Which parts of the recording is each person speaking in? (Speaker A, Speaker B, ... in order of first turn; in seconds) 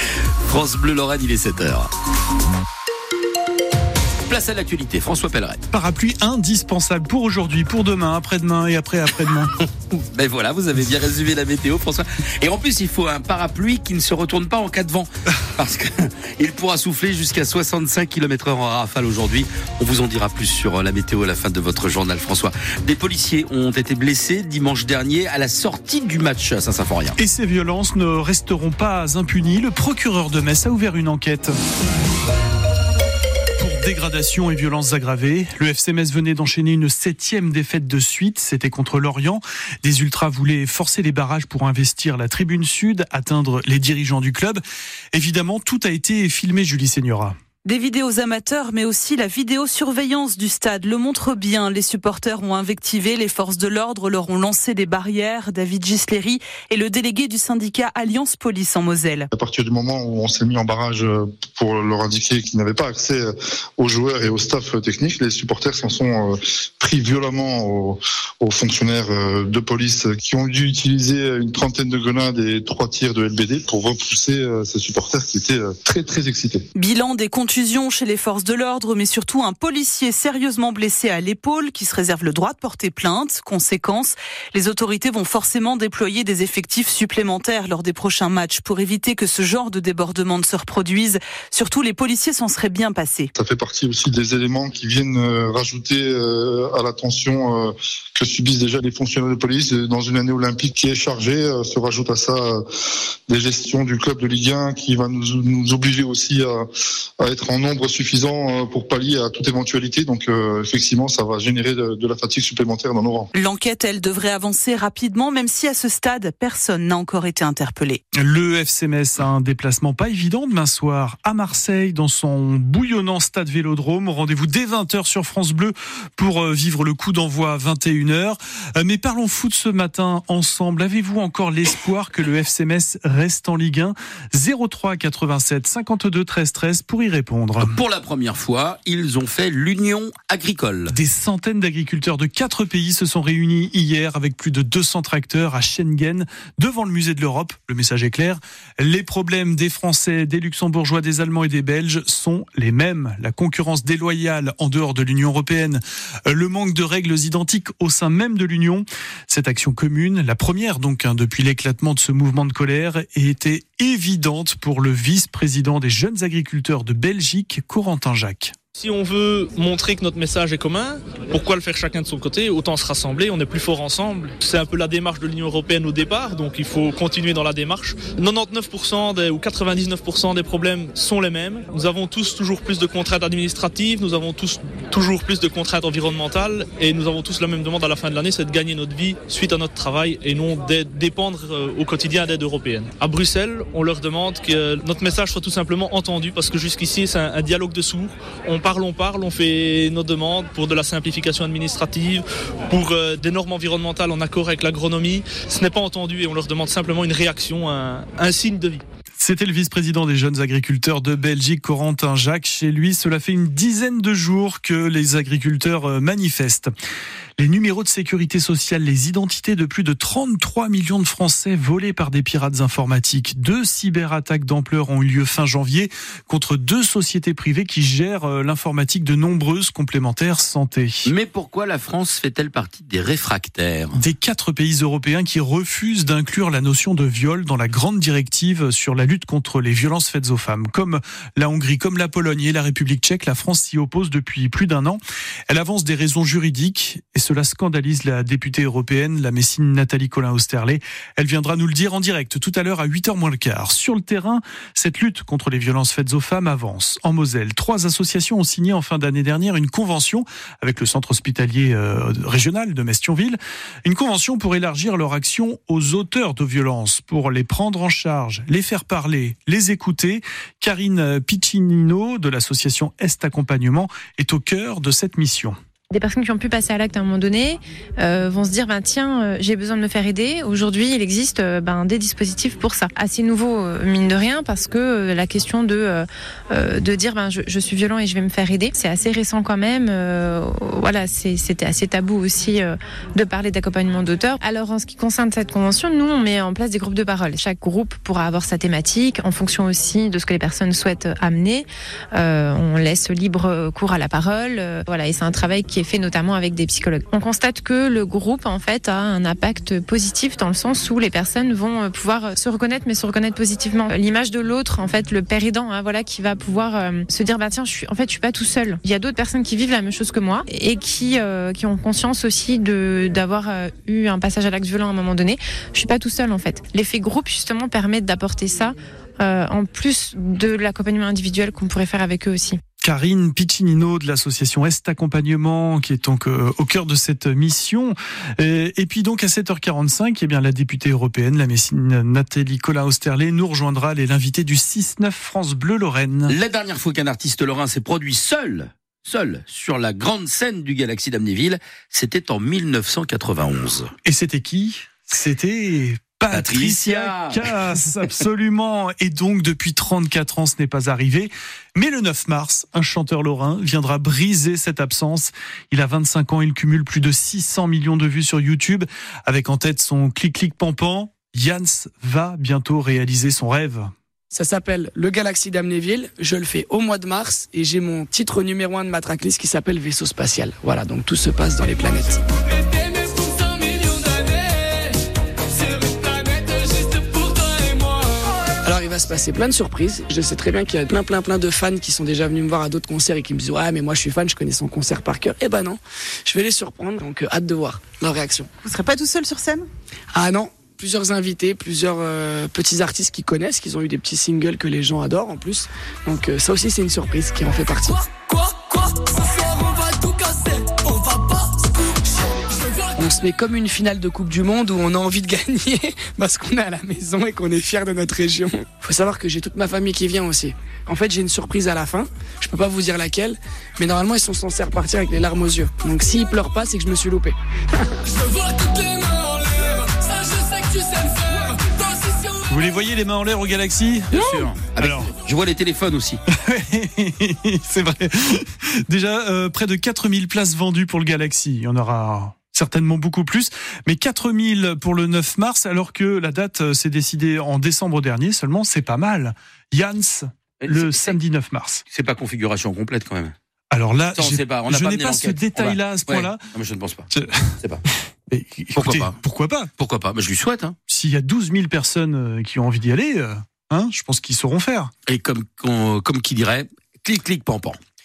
Speaker A: 0.4-1.9, 4.2-5.6, 9.9-27.1, 137.6-140.9, 231.1-234.0, 346.3-353.9, 356.3-357.5, 434.1-436.2, 450.6-451.1, 451.9-453.3, 454.1-457.1, 458.8-459.2, 459.8-460.8, 465.1-467.8
Speaker B: 5.7-9.5, 27.2-31.5, 33.6-47.4, 118.1-137.8, 140.9-168.5, 209.2-216.7, 217.4-231.1, 233.9-275.6, 332.8-346.4, 354.0-373.9, 432.5-435.1, 436.3-451.8, 453.7-456.4, 457.1-457.6, 458.3-459.7, 460.9-464.9
Speaker C: 47.6-59.3, 76.7-93.3, 113.3-118.0, 398.6-399.6
Speaker D: 59.3-76.7, 93.3-102.6, 103.3-106.6, 107.2-113.3
Speaker E: 168.8-208.8
Speaker F: 275.9-332.6
Speaker G: 374.3-382.3, 382.8-384.9, 385.5-398.5, 400.1-411.8, 412.8-432.3